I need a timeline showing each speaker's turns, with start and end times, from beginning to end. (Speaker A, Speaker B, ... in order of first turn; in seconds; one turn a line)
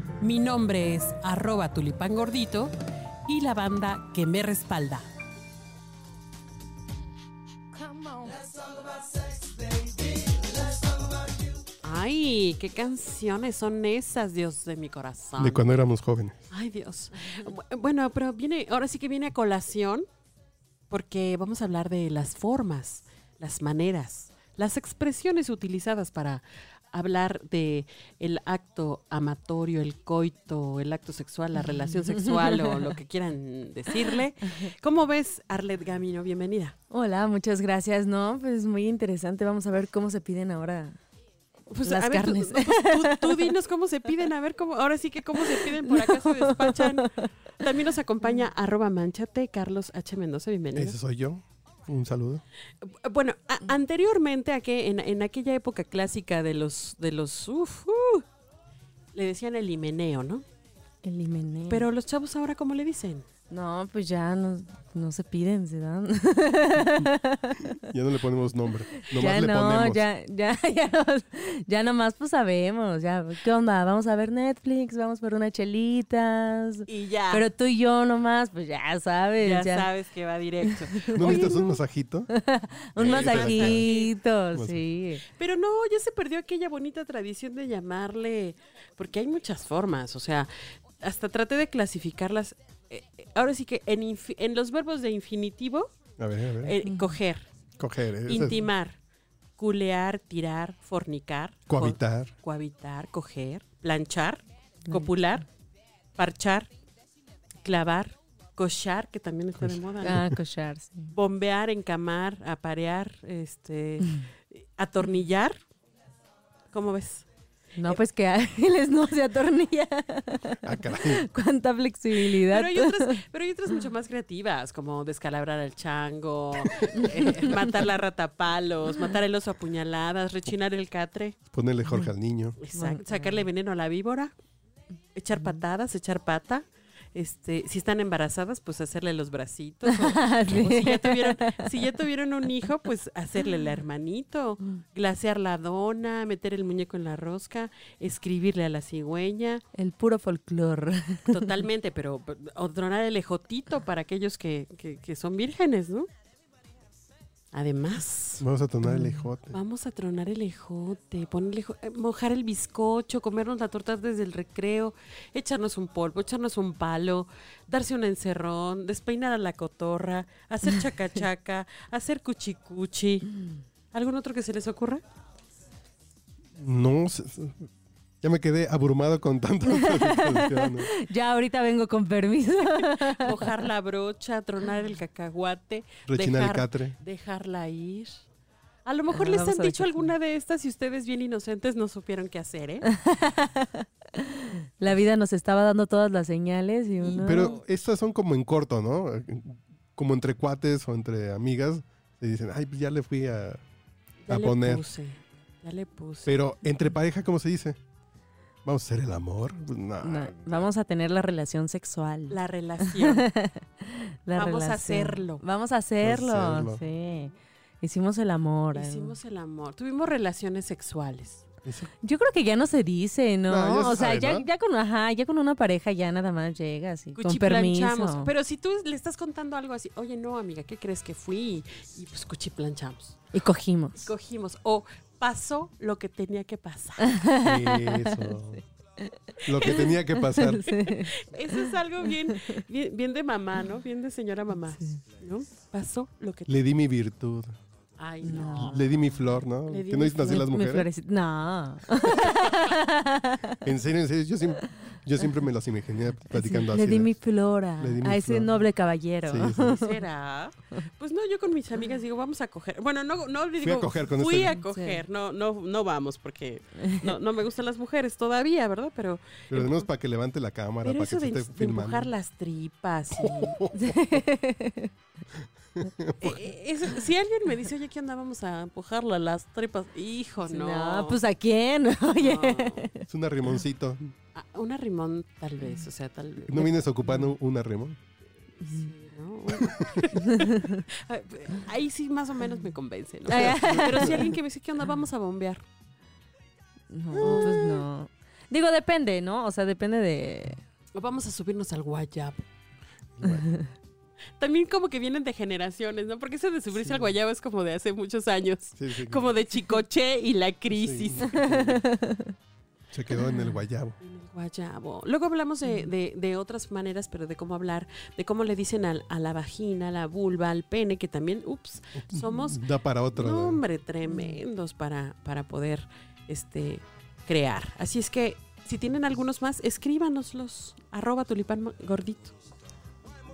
Speaker A: 0.2-5.1
Speaker A: 11.8-15.8
Speaker B: 15.4-16.4
Speaker A: 16.5-20.1
Speaker A: 20.9-36.8
Speaker C: 36.9-41.0
Speaker A: 41.7-51.0
Speaker C: 41.8-43.5
Speaker C: 45.4-47.3
Speaker B: 50.7-52.4
Speaker A: 52.8-58.2
Speaker A: 59.1-60.4
Speaker C: 61.0-61.9
Speaker A: 61.7-63.3
Speaker C: 63.5-67.8
Speaker B: 67.8-70.0
Speaker C: 69.0-79.9
Speaker A: 76.9-77.5
Speaker A: 79.4-81.7
Speaker C: 80.7-81.7
Speaker B: 81.1-82.3
Speaker C: 82.3-85.2
Speaker B: 82.9-83.9
Speaker A: 83.0-84.1
Speaker B: 84.5-84.8
Speaker A: 85.2-90.5
Speaker A: 91.0-95.9
Speaker B: 96.2-96.8
Speaker A: 96.6-97.5
Speaker C: 96.8-97.1
Speaker B: 97.8-98.7
Speaker A: 98.2-99.0
Speaker A: 99.6-105.5
Speaker B: 101.7-102.3
Speaker A: 106.2-106.7
Speaker A: 107.6-110.2
Speaker B: 109.6-110.4
Speaker C: 110.0-111.1
Speaker A: 111.1-115.6
Speaker A: 116.7-117.2
Speaker C: 117.8-123.2
Speaker B: 120.6-121.2
Speaker A: 122.2-131.3
Speaker B: 131.5-132.6
Speaker A: 132.6-134.3
Speaker C: 132.7-133.4
Speaker A: 135.1-149.6
Speaker C: 139.9-141.7
Speaker C: 149.7-151.6
Speaker A: 151.2-156.1
Speaker A: 157.5-158.4
Speaker B: 158.4-159.6
Speaker C: 158.8-159.3
Speaker A: 159.5-173.3
Speaker A: 173.9-175.0
Speaker B: 176.6-177.7
Speaker B: 178.2-180.9
Speaker C: 179.7-183.7
Speaker A: 182.9-188.2
Speaker B: 186.1-186.9
Speaker A: 188.8-192.9
Speaker C: 189.1-190.1
Speaker C: 192.9-197.5
Speaker A: 197.0-197.6
Speaker B: 197.2-203.6
Speaker A: 204.2-206.4
Speaker B: 204.3-204.8
Speaker B: 206.2-207.8
Speaker B: 208.6-210.4
Speaker C: 210.0-219.1
Speaker A: 212.3-213.3
Speaker A: 214.3-215.4
Speaker B: 216.0-216.8
Speaker A: 218.7-221.4
Speaker B: 221.6-221.9
Speaker C: 222.0-228.3
Speaker B: 223.4-224.5
Speaker A: 227.1-233.2
Speaker C: 233.3-234.0
Speaker A: 234.0-237.2
Speaker C: 237.0-238.3
Speaker B: 237.4-238.6
Speaker B: 239.4-240.7
Speaker C: 239.6-241.7
Speaker A: 240.6-246.5
Speaker C: 242.3-242.6
Speaker B: 246.5-247.6
Speaker A: 248.0-249.1
Speaker C: 248.2-248.9
Speaker B: 248.6-250.9
Speaker A: 249.7-250.5
Speaker C: 250.2-253.7
Speaker B: 253.6-257.1
Speaker C: 256.3-260.0
Speaker B: 257.8-258.6
Speaker B: 259.2-259.7
Speaker A: 259.6-269.8
Speaker B: 263.6-264.5
Speaker C: 264.5-265.0
Speaker C: 266.8-267.1
Speaker B: 269.5-272.1
Speaker A: 270.8-273.6
Speaker B: 273.2-273.9
Speaker C: 273.7-274.9
Speaker B: 275.8-276.4
Speaker A: 276.2-281.2
Speaker C: 280.4-283.1
Speaker A: 282.1-282.9
Speaker B: 283.1-284.0
Speaker A: 284.3-286.7
Speaker B: 286.5-288.0
Speaker A: 288.6-295.6
Speaker B: 289.5-290.1
Speaker C: 290.2-290.8
Speaker C: 293.3-294.3
Speaker B: 293.9-294.2
Speaker C: 296.9-300.6
Speaker B: 297.1-297.8
Speaker A: 297.2-297.5
Speaker A: 300.9-302.4
Speaker B: 303.2-303.5
Speaker C: 303.2-303.6
Speaker A: 304.4-311.3
Speaker B: 308.8-309.3
Speaker B: 310.7-311.8
Speaker C: 311.2-312.3
Speaker B: 312.9-314.0
Speaker A: 314.0-332.4
Speaker B: 321.9-323.6
Speaker C: 324.1-324.4